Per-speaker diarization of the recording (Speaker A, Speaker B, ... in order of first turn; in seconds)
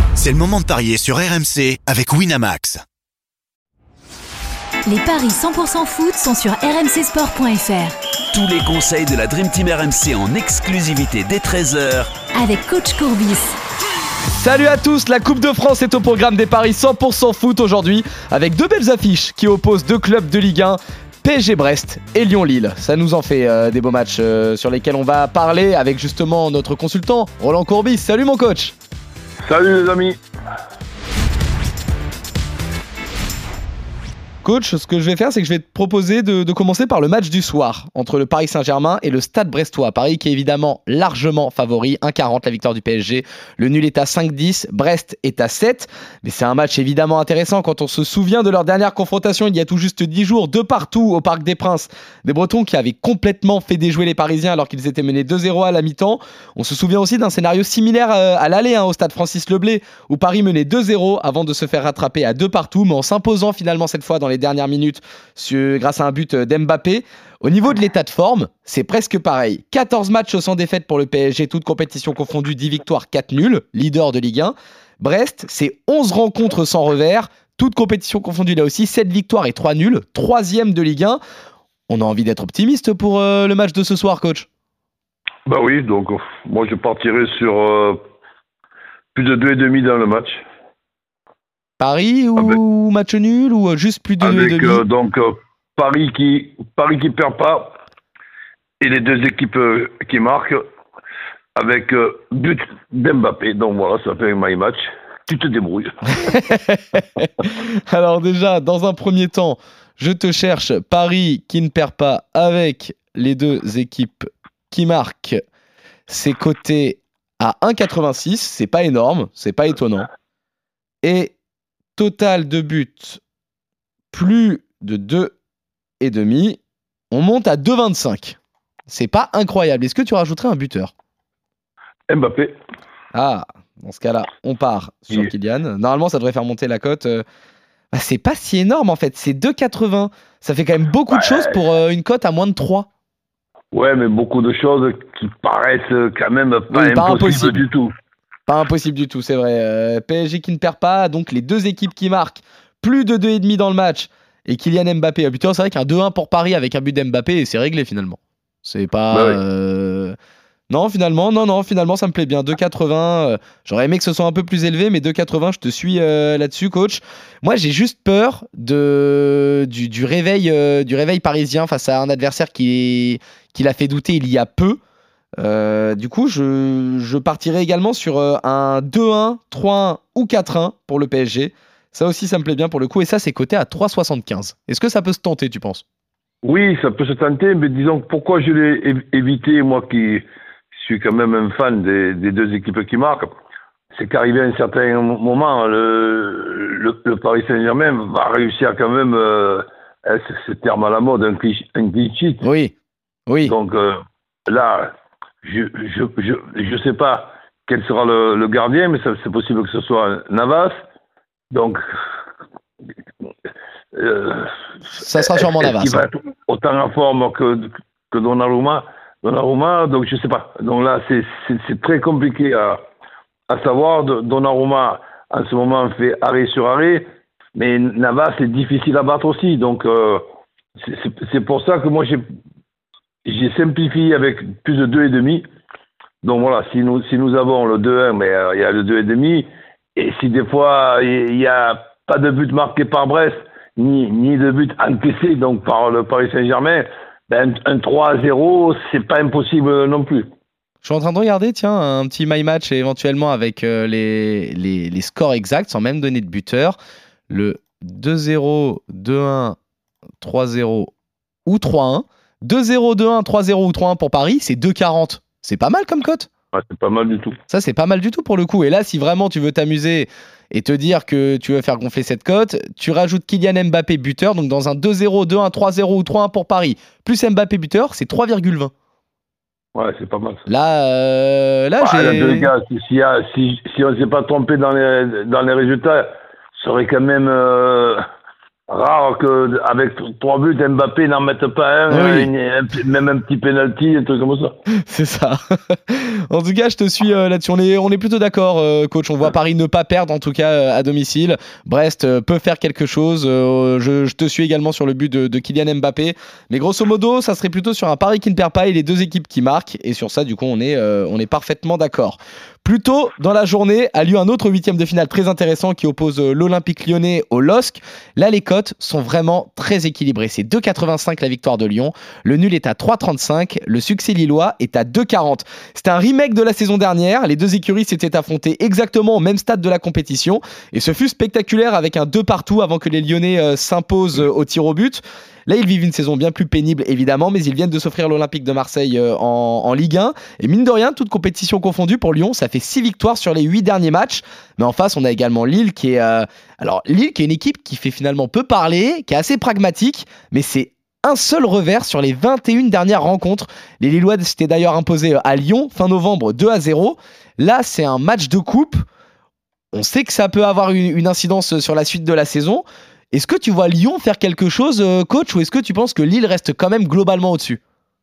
Speaker A: 0.2-2.8
Speaker B: 4.9-7.9, 12.3-13.6
Speaker C: 8.3-12.2
Speaker D: 14.3-28.7, 34.4-81.2, 81.9-84.5, 91.8-94.8, 106.2-115.4, 116.1-120.1, 121.0-121.3, 122.0-123.2, 124.1-125.3, 126.0-126.6, 127.1-128.4, 128.9-130.9, 133.1-137.2, 137.9-142.9, 146.7-147.6, 148.5-160.2, 160.7-174.8, 175.4-185.8, 202.4-202.7, 203.3-203.5, 215.0-216.1, 250.8-256.8, 257.3-259.6, 260.2-260.9, 261.5-266.3, 267.5-278.7, 280.5-282.5, 291.9-292.3, 294.9-358.8, 359.7-367.6
Speaker E: 29.4-30.2, 85.5-88.0, 89.2-90.4, 94.2-97.8, 98.8-100.6, 101.6-106.1, 132.1-132.6, 143.7-147.9, 159.1-159.4, 186.4-193.3, 193.9-202.4, 203.4-204.9, 205.4-210.7, 211.5-211.8, 213.9-214.5, 215.4-222.8, 223.5-230.2, 230.8-232.2, 233.3-235.4, 236.2-250.3, 266.5-267.4, 279.8-280.4, 281.8-288.0, 288.7-294.6